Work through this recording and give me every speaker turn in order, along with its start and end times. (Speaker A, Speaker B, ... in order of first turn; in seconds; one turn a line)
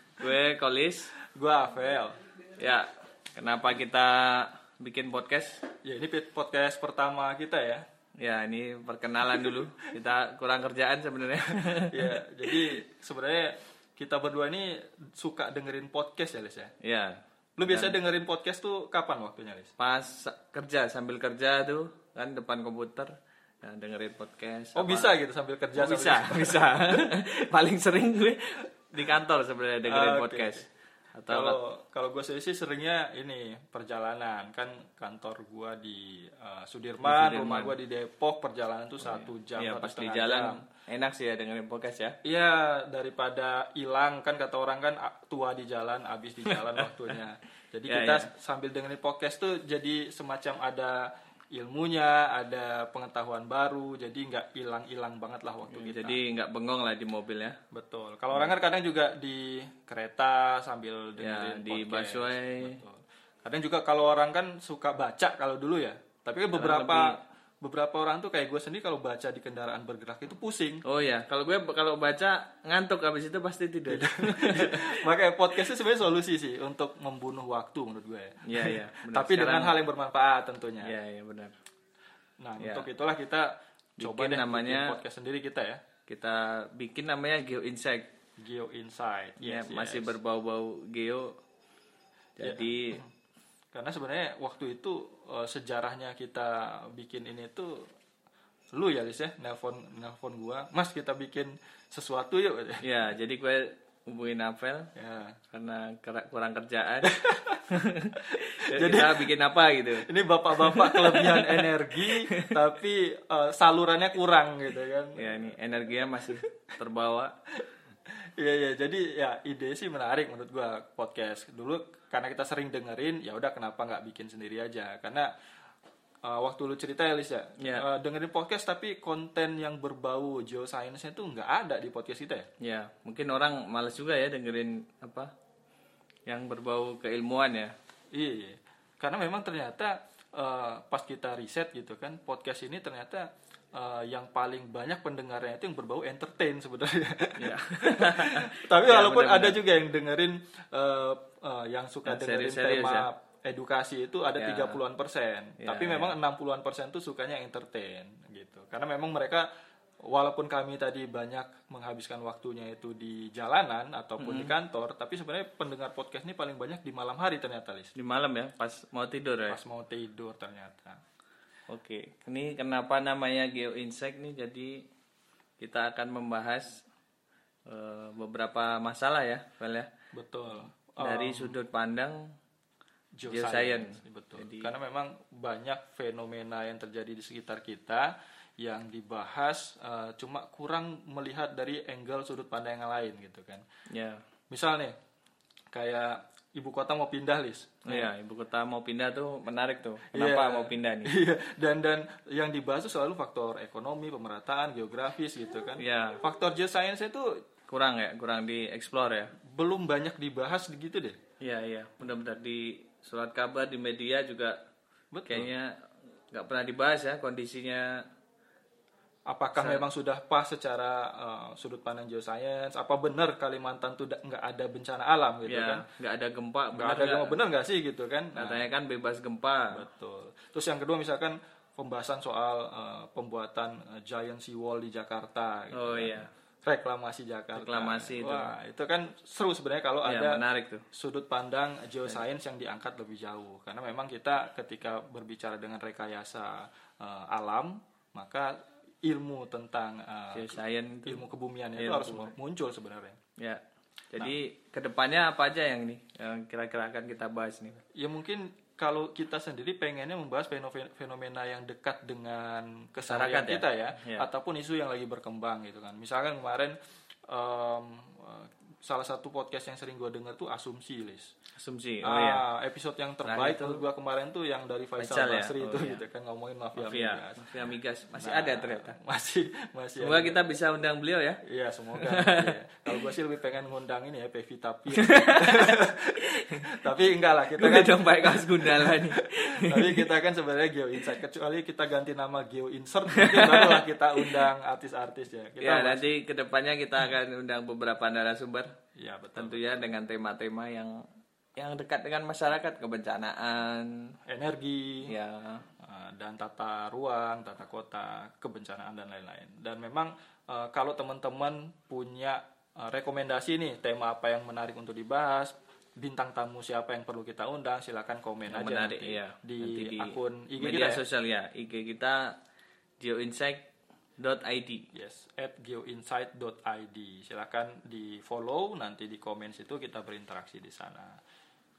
Speaker A: 0.2-1.1
Speaker B: 1.3-2.1
Speaker A: 2.6-5.6
Speaker B: 5.8-7.8
Speaker A: 8.2-12.2
Speaker B: 11.9-16.7
Speaker A: 16.8-18.0
Speaker B: 17.6-19.7
Speaker A: 19.8-25.1
Speaker B: 24.8-27.1
Speaker A: 25.8-31.6
Speaker B: 29.9-30.7
Speaker B: 31.3-40.6
Speaker A: 37.0-37.8
Speaker A: 39.0-42.2
Speaker B: 42.2-56.2
Speaker A: 46.5-46.8
Speaker A: 47.9-48.3
Speaker A: 55.7-57.6
Speaker B: 57.7-70.8
Speaker A: 61.2-62.8
Speaker A: 66.5-67.2
Speaker A: 70.8-74.9
Speaker B: 73.9-80.9
Speaker A: 78.4-79.7
Speaker A: 80.8-81.5
Speaker B: 82.4-85.8
Speaker A: 82.6-82.9
Speaker A: 84.0-85.0
Speaker A: 86.1-88.1
Speaker B: 88.4-90.2
Speaker A: 89.4-91.3
Speaker A: 92.4-93.0
Speaker B: 92.4-93.0
Speaker B: 93.7-97.9
Speaker B: 98.7-102.8
Speaker A: 102.8-104.9
Speaker B: 104.9-105.4
Speaker A: 105.5-107.1
Speaker B: 107.0-107.6
Speaker A: 107.7-112.5
Speaker B: 108.2-109.3
Speaker B: 110.0-115.5
Speaker A: 115.2-117.3
Speaker B: 118.4-125.3
Speaker B: 126.2-132.5
Speaker A: 127.6-127.9
Speaker A: 132.6-135.3
Speaker A: 136.2-137.8
Speaker B: 138.1-159.5
Speaker A: 147.4-149.6
Speaker A: 152.1-153.1
Speaker A: 154.4-154.8
Speaker A: 155.6-156.2
Speaker B: 160.1-167.9
Speaker A: 164.2-164.5
Speaker A: 167.9-169.6
Speaker B: 169.5-171.0
Speaker A: 171.7-174.8
Speaker A: 175.6-176.8
Speaker A: 177.7-179.9
Speaker B: 180.1-181.6
Speaker A: 181.0-182.3
Speaker B: 183.2-193.7
Speaker A: 183.2-184.7
Speaker A: 193.9-194.2
Speaker B: 194.5-194.9
Speaker B: 195.7-198.1
Speaker A: 197.9-201.1
Speaker B: 200.1-207.4
Speaker A: 205.8-206.2
Speaker A: 207.7-209.3
Speaker B: 209.5-211.2
Speaker A: 211.4-214.6
Speaker B: 215.1-215.5
Speaker A: 215.3-215.7
Speaker A: 216.3-218.0
Speaker B: 219.3-225.9
Speaker A: 219.6-219.8
Speaker A: 225.5-227.4
Speaker B: 226.7-228.7
Speaker A: 228.3-229.8
Speaker B: 229.7-250.5
Speaker A: 235.7-236.3
Speaker A: 237.6-238.5
Speaker A: 240.0-240.8
Speaker A: 250.3-251.2
Speaker B: 251.1-253.2
Speaker A: 251.8-252.3
Speaker A: 253.4-257.8
Speaker B: 257.9-266.8
Speaker A: 263.0-264.2
Speaker B: 267.3-271.3
Speaker A: 271.6-272.4
Speaker B: 272.0-277.5
Speaker A: 273.2-273.8
Speaker A: 275.0-276.0
Speaker A: 276.8-279.0
Speaker B: 278.2-280.5
Speaker A: 280.0-281.4
Speaker B: 281.4-296.1
Speaker A: 281.9-282.6
Speaker A: 285.0-285.8
Speaker A: 287.6-290.1
Speaker A: 293.1-294.4
Speaker A: 295.6-298.7
Speaker B: 299.0-299.9
Speaker A: 299.4-301.0
Speaker A: 301.6-304.1
Speaker B: 304.2-305.1
Speaker A: 305.1-305.6
Speaker B: 305.8-321.0
Speaker A: 318.5-322.4
Speaker A: 323.0-323.7
Speaker A: 324.2-324.9
Speaker B: 324.9-331.2